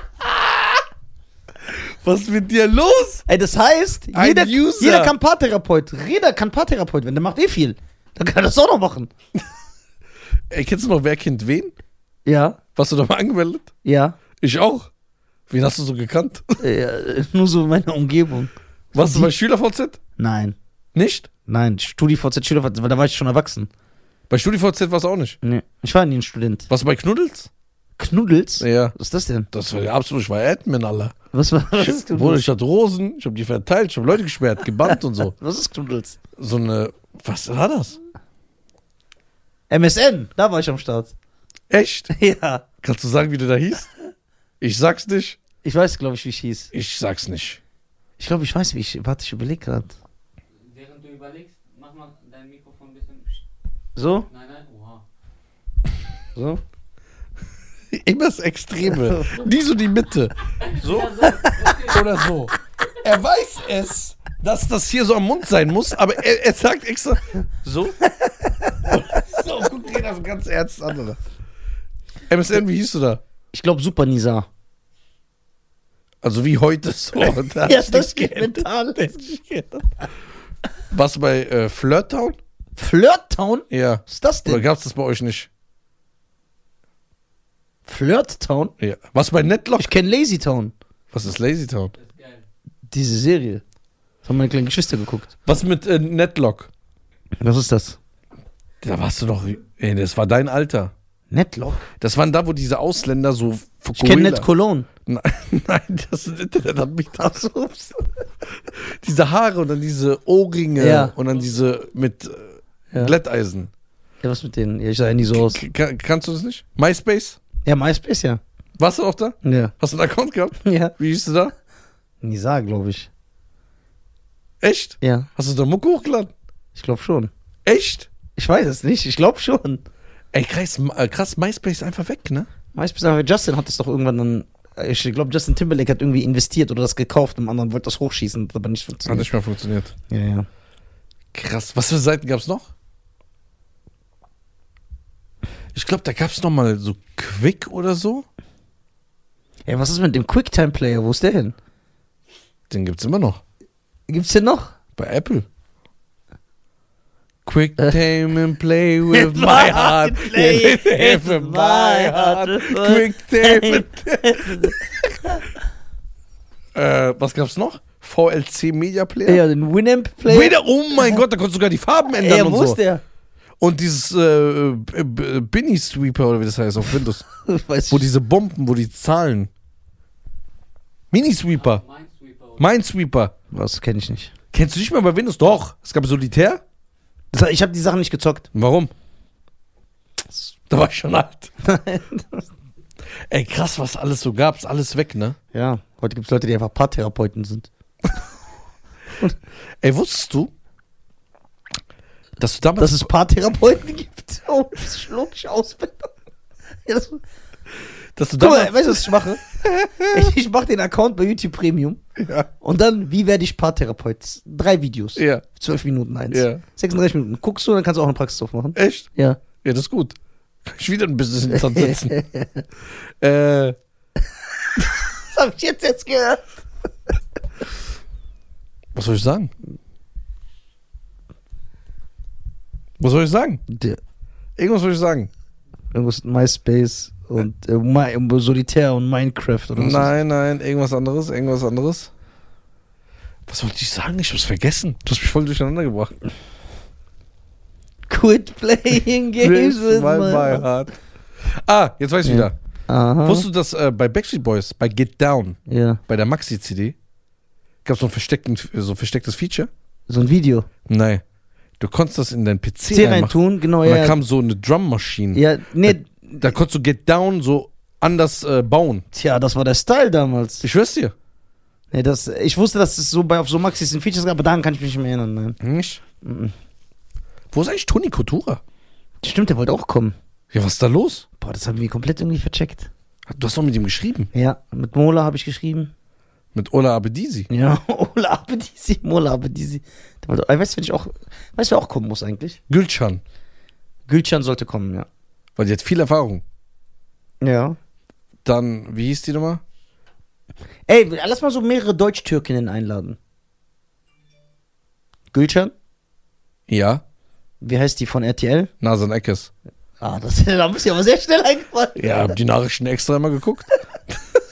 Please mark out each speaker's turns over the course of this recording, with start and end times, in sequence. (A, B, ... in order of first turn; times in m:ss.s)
0:00.2-0:00.6 A
0:01.6-0:03.2 A
0:03.3-0:09.1 B
0:04.1-0:05.1 A
0:10.5-0:11.7 A
0:12.2-0:12.6 B
0:12.8-0:13.7 A
0:13.8-0:14.2 B
0:14.4-0:14.9 A
0:15.5-0:16.6 A
0:16.6-0:19.3 B
0:18.9-0:20.0 A
0:20.2-0:20.6 B
0:20.9-0:21.3 A
0:21.5-0:23.7 B
0:24.3-0:25.4 A
0:25.4-0:26.7 B
0:26.7-0:27.5 A
0:28.0-0:29.5 B
0:28.6-0:28.9 A
0:29.5-0:31.1 A
0:31.3-0:32.4 B
0:31.8-0:35.3 A
0:34.9-0:36.2 B
0:36.4-0:38.0 A
0:39.7-0:41.1 B
0:41.7-0:42.1 A
0:42.1-0:42.6 B
0:42.8-0:43.9 A
0:44.6-0:45.4 A
0:45.6-0:46.7 B
0:46.7-0:47.6 A
0:48.2-0:49.9 B
0:50.6-0:53.4 C
0:54.0-0:54.3 B
0:54.3-0:55.0 C
0:56.4-0:56.6 B
0:57.9-1:08.0 A
0:59.1-0:59.3 B
1:00.6-1:02.1 C
1:08.0-1:09.2 B
1:08.8-1:11.2 A
1:12.3-1:13.2 A
1:13.5-1:14.5 B
1:16.2-1:19.8 A
1:17.2-1:19.1 B
1:20.9-1:22.4 A
1:22.8-1:24.6 B
1:23.7-1:25.5 A
1:27.8-1:28.7 B
1:28.8-1:29.9 A
1:29.8-1:30.7 B
1:31.1-1:31.9 A
1:32.0-1:32.4 C
1:32.9-1:33.6 B
1:34.2-1:35.3 B
1:35.4-1:36.7 A
1:37.4-1:38.0 B
1:38.8-1:40.9 A
1:41.3-1:41.9 B
1:42.0-1:44.5 A
1:43.9-1:44.9 B
1:45.0-1:47.2 A
1:47.1-1:48.1 B
1:48.7-1:53.7 A
1:50.8-1:51.1 B
1:54.2-1:55.6 B
1:55.2-1:57.4 A
1:57.6-1:58.4 B
1:58.8-2:01.5 A
1:59.4-1:59.7 B
2:00.6-2:00.9 B
2:02.2-2:03.1 B
2:04.6-2:06.3 A
2:05.0-2:05.3 B
2:06.7-2:07.3 B
2:07.6-2:08.1 A
2:08.4-2:09.8 B
2:10.3-2:12.5 A
2:12.7-2:19.3 B
2:19.0-2:19.9 A
2:20.1-2:20.5 B
2:21.3-2:22.7 A
2:25.7-2:28.2 A
2:29.7-2:31.5 B
2:32.7-2:33.4 A
2:34.1-2:34.7 B
2:35.0-2:35.4 A
2:37.4-2:44.9 A
2:39.1-2:45.4 B
2:46.7-2:49.4 A
2:49.2-2:51.2 B
2:50.2-2:52.8 A
2:52.1-2:53.0 B
2:53.6-2:57.2 A
2:57.4-2:58.1 B
2:57.9-2:59.5 A
3:01.1-3:01.8 A
3:01.5-3:02.7 C
3:02.6-3:03.3 A
3:03.5-3:04.3 B
3:04.5-3:06.6 A
3:07.3-3:08.5 B
3:08.5-3:08.9 A
3:10.7-3:11.5 A
3:11.6-3:12.4 B
3:13.3-3:15.4 A
3:15.5-3:17.7 B
3:19.8-3:20.5 A
3:22.4-3:23.1 A
3:22.8-3:26.1 B
3:26.8-3:27.2 B
3:28.2-3:30.3 A
3:28.4-3:29.4 B
3:30.1-3:32.0 B
3:32.2-3:32.5 A
3:32.6-3:39.4 B
3:35.2-3:35.4 A
3:36.3-3:36.6 A
3:38.8-3:42.2 A
3:41.5-3:42.6 B
3:43.2-3:43.8 A
3:44.8-3:46.4 B
3:48.9-3:49.5 A
3:53.0-3:53.6 A
3:53.7-3:54.0 B
3:54.6-3:55.3 A
3:55.9-4:00.1 B
3:59.8-4:02.1 A
4:03.5-4:06.1 A
4:08.1-4:10.6 B
4:09.4-4:12.5 A
4:12.2-4:13.4 B
4:13.2-4:17.0 A
4:15.7-4:16.0 B
4:17.8-4:19.7 A
4:20.1-4:20.7 B
4:20.9-4:21.2 A
4:21.8-4:29.0 A
4:22.9-4:24.2 B
4:25.3-4:26.5 B
4:29.1-4:30.6 B
4:30.6-4:31.1 A
4:31.9-4:35.6 B
4:35.6-4:36.0 A
4:36.2-4:36.5 B
4:37.5-4:38.6 A
4:39.2-4:40.1 B
4:40.5-4:41.2 A
4:41.4-4:42.9 B
4:43.3-4:44.3 A
4:44.3-4:45.9 B
4:46.5-4:47.5 A
4:47.5-4:52.6 B
4:52.7-4:53.2 A
4:54.1-4:55.1 B
4:55.6-4:56.4 A
4:57.4-4:57.8 B
4:58.4-4:59.6 A
5:00.9-5:03.2 B
5:05.3-5:05.7 B
5:06.7-5:07.0 A
5:07.6-5:08.7 B
5:08.8-5:09.5 A
5:10.0-5:12.4 B
5:12.0-5:13.7 A